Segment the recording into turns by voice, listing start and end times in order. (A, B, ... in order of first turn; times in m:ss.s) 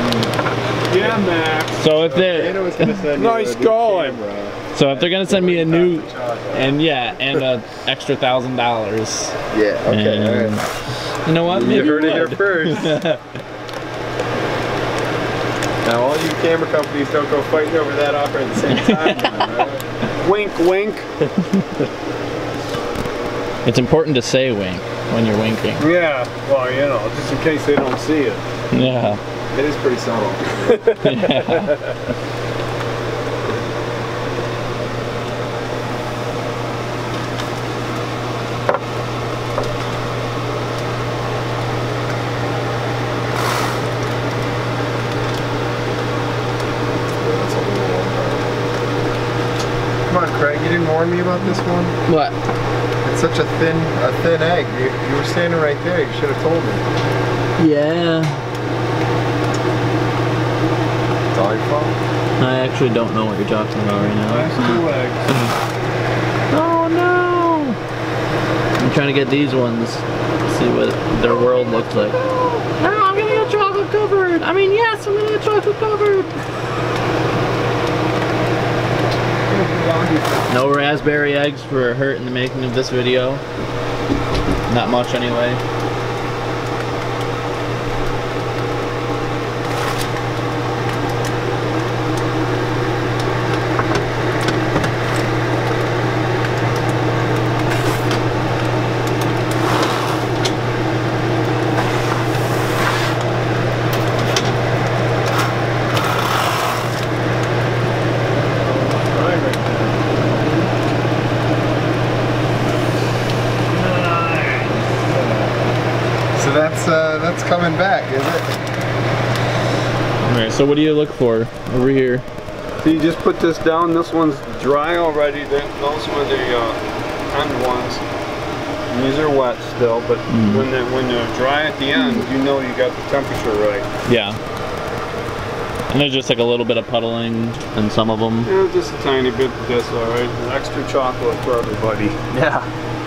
0:00.9-0:04.2 A
0:01.8-0:02.9 B
0:02.2-0:06.8 C
0:04.7-0:10.7 B
0:09.5-0:10.6 C
0:11.2-0:13.2 B
0:11.4-0:13.0 C
0:11.7-0:12.3 A
0:15.8-0:19.8 C
0:18.7-0:19.3 B
0:20.2-0:21.1 A
0:23.6-0:25.9 B
0:25.8-0:28.4 A
0:28.7-0:29.2 B
0:29.5-0:30.9 C
0:30.6-0:31.9 A
0:31.0-0:31.8 B
0:47.2-0:48.6 C
0:50.1-0:52.0 C
0:52.1-0:52.4 B
0:53.0-0:56.8 C
0:57.6-0:58.4 B
1:01.3-1:02.0 C
1:02.4-1:05.5 B
1:04.2-1:05.3 A
1:06.5-1:07.8 B
1:08.8-1:12.2 B
1:11.6-1:13.2 A
1:12.8-1:16.4 B
1:19.5-1:20.5 A
1:20.5-1:23.4 B
1:24.7-1:25.6 B
1:48.4-1:50.3 A
1:53.7-1:54.8 A
1:56.4-1:58.6 C
2:00.2-2:02.3 B
2:02.8-2:06.8 A
2:07.3-2:08.0 A
2:08.9-2:13.9 A
2:10.3-2:10.7 B
2:14.1-2:14.4 B
2:15.9-2:18.5 B
2:18.5-2:22.2 A
2:22.3-2:22.7 B